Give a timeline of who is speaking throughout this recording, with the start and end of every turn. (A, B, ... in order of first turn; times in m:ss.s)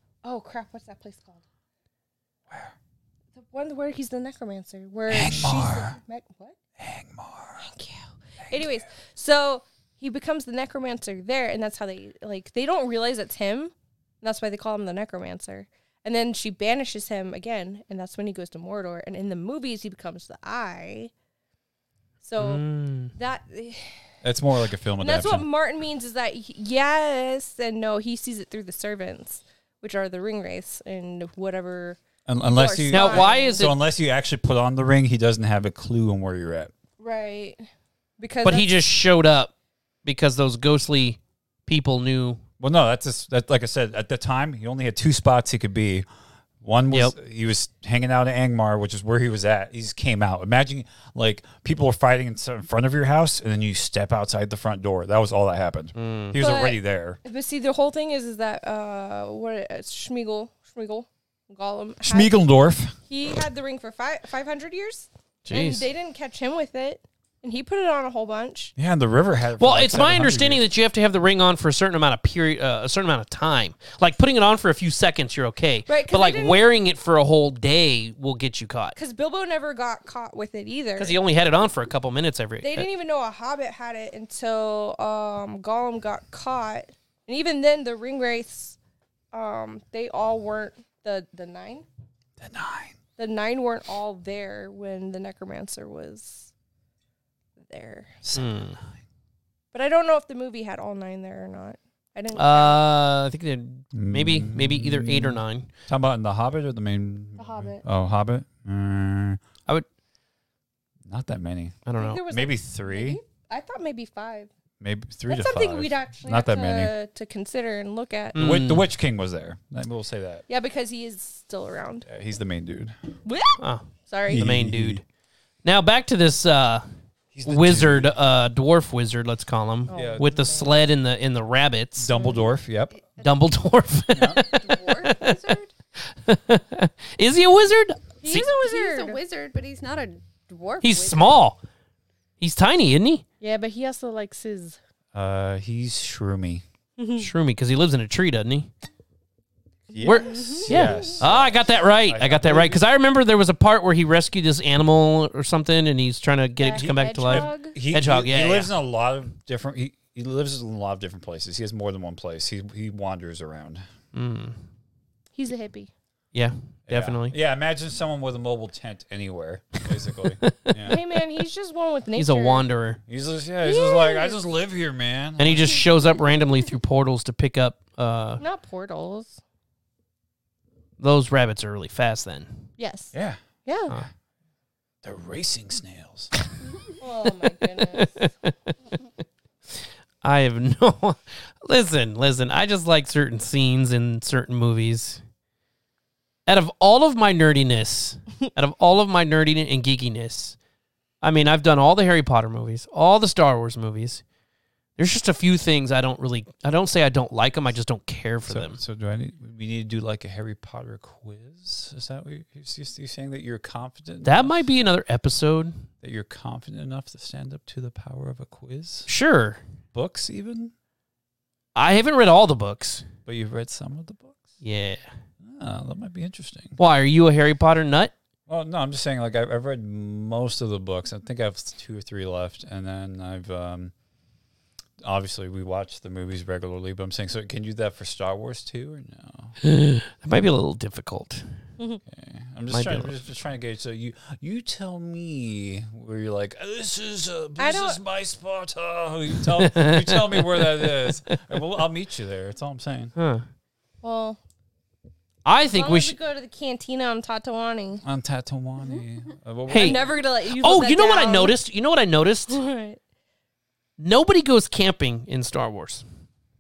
0:00.2-0:01.4 A
0:03.4-0:06.6 A
0:05.1-0:06.0 B
0:06.8-0:07.7 B
0:07.6-0:21.1 A
0:08.5-0:08.8 B
0:22.2-0:22.6 A
0:22.4-0:23.1 C
0:23.2-0:23.9 A
0:24.2-0:25.5 B
0:25.0-0:32.0 A
0:32.3-0:36.7 B
0:32.5-0:33.7 A
0:32.9-0:33.7 C
0:37.0-0:37.6 A
0:38.2-0:38.7 A
0:38.4-0:39.5 C
0:40.0-0:42.4 C
0:42.6-0:46.1 B
0:46.6-0:57.2 B
0:56.0-0:56.4 C
0:56.4-1:02.3 A
1:02.0-1:03.0 B
1:03.1-1:08.7 A
1:05.5-1:05.9 C
1:08.8-1:10.6 B
1:09.6-1:19.0 C
1:15.9-1:16.6 A
1:19.0-1:21.2 A
1:21.0-1:22.9 C
1:22.6-1:28.8 A
1:29.3-1:31.9 A
1:32.4-1:33.0 B
1:33.2-1:36.5 A
1:37.7-1:38.1 A
1:38.2-1:38.5 B
1:38.3-1:38.8 C
1:39.7-1:42.8 A
1:42.4-1:45.7 C
1:44.0-1:49.4 B
1:47.4-1:47.8 A
1:51.1-1:53.2 B
1:51.9-1:52.3 C
1:52.0-1:54.5 A
1:54.8-1:56.9 B
1:55.3-1:58.4 A
1:58.4-1:58.9 C
1:58.4-2:00.4 B
2:00.5-2:02.1 A
2:02.1-2:02.9 B
2:03.2-2:04.4 A
2:03.6-2:05.0 C
2:04.3-2:05.0 B
2:05.6-2:06.8 C
2:07.3-2:08.2 B
2:07.4-2:12.2 C
2:09.9-2:10.8 A
2:09.9-2:10.3 B
2:12.0-2:12.9 B
2:13.2-2:15.4 C
2:14.1-2:14.4 B
2:14.5-2:15.7 D
2:16.3-2:18.5 C
2:18.2-2:19.2 A
2:18.5-2:21.4 D
2:20.8-2:21.6 C
2:22.4-2:23.2 C
2:23.4-2:24.8 A
2:25.1-2:26.6 B
2:27.0-2:27.3 A
2:27.2-2:28.7 C
2:29.9-2:32.8 B
2:30.0-2:31.2 A
2:30.0-2:38.7 C
2:36.6-2:37.8 A
2:36.8-2:43.8 B
2:44.1-2:44.6 C
2:45.4-2:45.9 A
2:46.3-2:47.4 C
2:46.9-2:51.0 B
2:50.3-2:50.8 C
2:50.8-2:52.6 A
2:52.2-2:53.0 C
2:53.1-2:55.8 B
2:53.6-2:54.4 A
2:55.4-2:58.4 C
2:58.4-2:59.4 A
3:01.0-3:02.6 C
3:02.8-3:03.1 A
3:03.1-3:04.0 B
3:03.7-3:03.9 A
3:05.0-3:06.3 B
3:07.0-3:08.2 A
3:07.8-3:08.5 C
3:10.2-3:15.2 C
3:16.5-3:20.6 C
3:21.2-3:24.2 C
3:25.0-3:28.8 C
3:28.5-3:34.6 B
3:34.2-3:35.9 C
3:36.0-3:39.1 B
3:39.1-3:39.6 C
3:39.9-3:40.7 B
3:41.8-3:43.0 C
3:43.3-3:44.5 B
3:44.6-3:45.1 C
3:45.4-3:46.8 B
3:46.8-3:48.1 C
3:48.5-3:53.9 B
3:55.0-3:59.6 B
3:59.6-4:01.5 C
4:02.1-4:13.1 B
4:02.7-4:03.1 C
4:07.6-4:08.0 A
4:09.5-4:11.6 C
4:13.2-4:13.4 C
4:14.0-4:14.4 A
4:15.4-4:16.2 C
4:15.7-4:18.0 A
4:18.0-4:20.1 B
4:19.7-4:22.6 C
4:19.7-4:21.6 A
4:22.5-4:23.0 A
4:24.0-4:26.0 C